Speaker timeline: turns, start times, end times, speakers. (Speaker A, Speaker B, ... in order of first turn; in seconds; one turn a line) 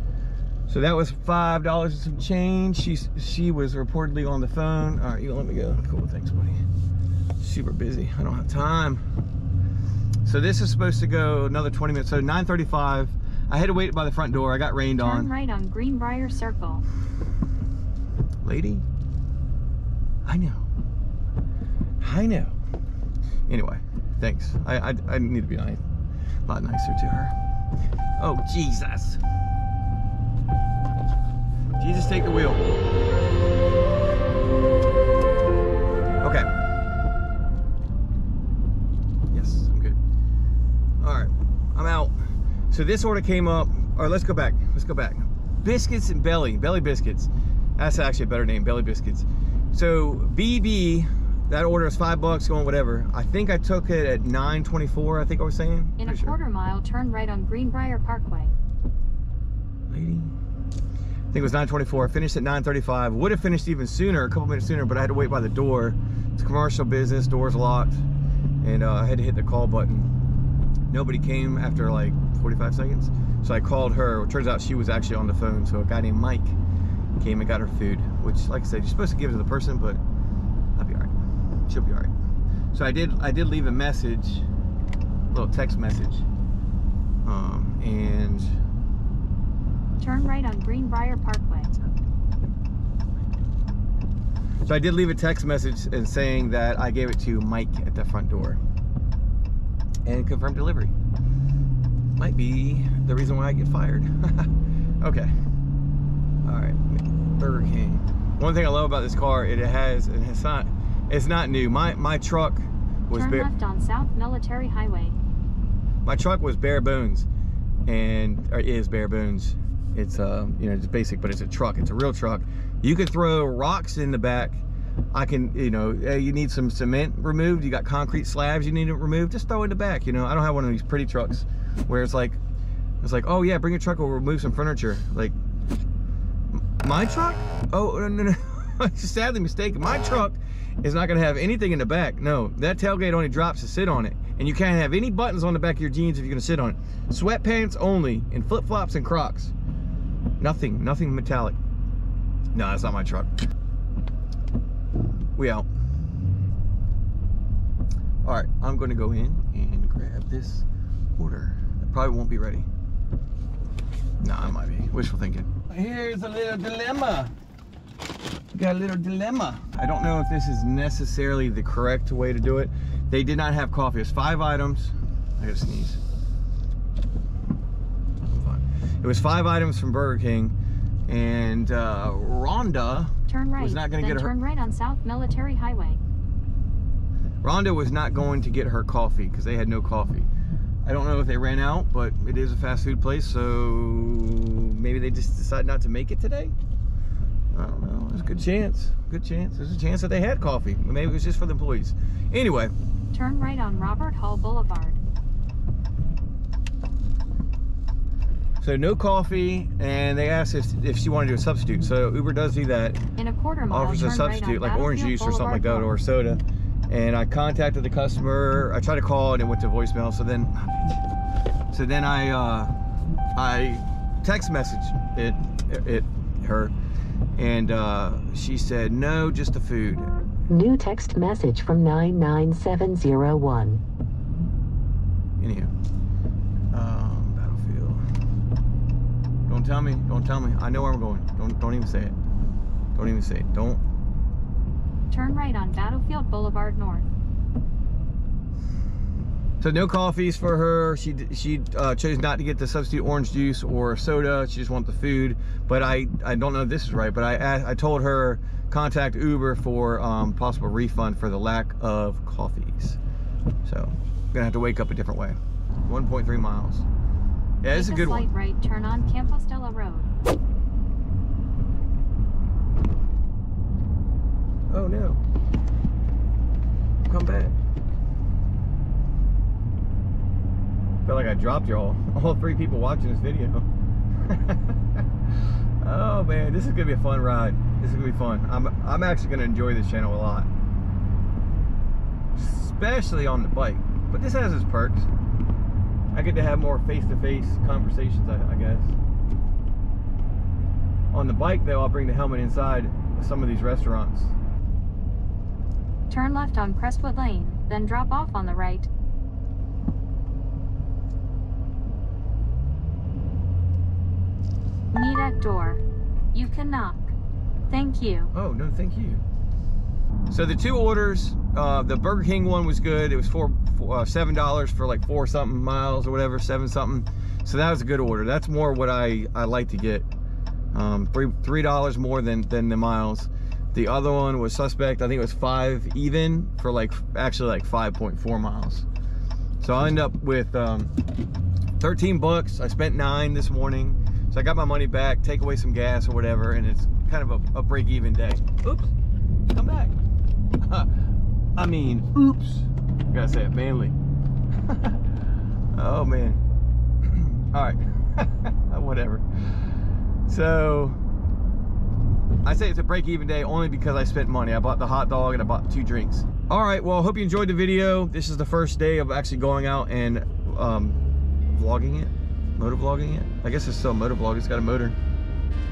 Speaker A: 0.7-6.6
Speaker A: 7.4-9.0
Speaker A: 10.2-15.3
Speaker B: 15.0-16.8
Speaker A: 18.4-18.9
Speaker A: 20.2-20.7
Speaker A: 22.0-22.6
Speaker A: 23.5-25.8
Speaker A: 26.5-27.4
Speaker A: 28.2-29.2
Speaker A: 31.8-32.7
Speaker A: 36.2-36.5
Speaker A: 39.3-40.0
Speaker A: 41.0-42.1
Speaker A: 42.7-56.4
Speaker B: 56.0-58.5
Speaker A: 59.9-60.4
Speaker A: 61.3-68.0
Speaker A: 68.6-70.1
Speaker A: 70.9-76.6
Speaker A: 77.2-80.0
Speaker A: 80.8-81.2
Speaker A: 81.7-82.1
Speaker A: 82.7-84.5
Speaker A: 85.3-86.3
Speaker A: 87.2-88.5
Speaker B: 90.0-91.7
Speaker A: 94.7-98.6
Speaker A: 100.0-100.9
Speaker A: 102.2-105.3
Speaker A: 106.4-113.5
Speaker B: 113.1-115.2
Speaker A: 116.0-117.3
Speaker A: 117.9-124.6
Speaker A: 125.1-132.4
Speaker A: 133.0-135.3
Speaker A: 136.5-149.6
Speaker A: 150.4-151.6
Speaker A: 152.5-153.3
Speaker A: 155.4-155.7
Speaker A: 158.2-160.7
Speaker A: 161.2-162.7
Speaker A: 164.2-167.3
Speaker A: 168.5-176.0
Speaker A: 178.2-180.6
Speaker A: 181.1-184.3
Speaker B: 183.3-186.0
Speaker A: 187.4-190.3
Speaker A: 190.8-196.6
Speaker A: 197.5-202.7
Speaker B: 203.1-205.0
Speaker A: 208.6-213.0
Speaker B: 213.2-215.9
Speaker A: 213.7-221.0
Speaker A: 221.7-222.7
Speaker A: 223.4-226.7
Speaker A: 227.4-230.1
Speaker C: 230.5-233.8
Speaker A: 235.4-235.7
Speaker A: 236.7-238.0
Speaker A: 239.5-242.2
Speaker A: 242.9-243.8
Speaker B: 245.1-247.1
Speaker A: 249.6-263.0
Speaker A: 263.6-266.9
Speaker A: 267.6-268.3
Speaker B: 267.7-270.1
Speaker A: 274.7-275.2
Speaker A: 277.1-277.6
Speaker A: 281.1-283.7
Speaker A: 284.2-285.0
Speaker A: 285.8-290.5
Speaker A: 292.4-295.1
Speaker A: 296.1-299.0
Speaker A: 301.1-304.4
Speaker B: 306.1-308.9
Speaker B: 314.9-317.1
Speaker B: 317.7-318.3
Speaker A: 318.3-319.2
Speaker A: 320.3-330.1
Speaker A: 330.7-338.9
Speaker A: 339.6-340.9
Speaker A: 341.8-348.9
Speaker A: 349.5-350.0
Speaker A: 350.6-354.0
Speaker A: 354.7-355.0
Speaker A: 355.7-356.4
Speaker A: 357.0-359.6
Speaker A: 360.3-361.0
Speaker A: 362.4-371.0
Speaker A: 371.5-375.0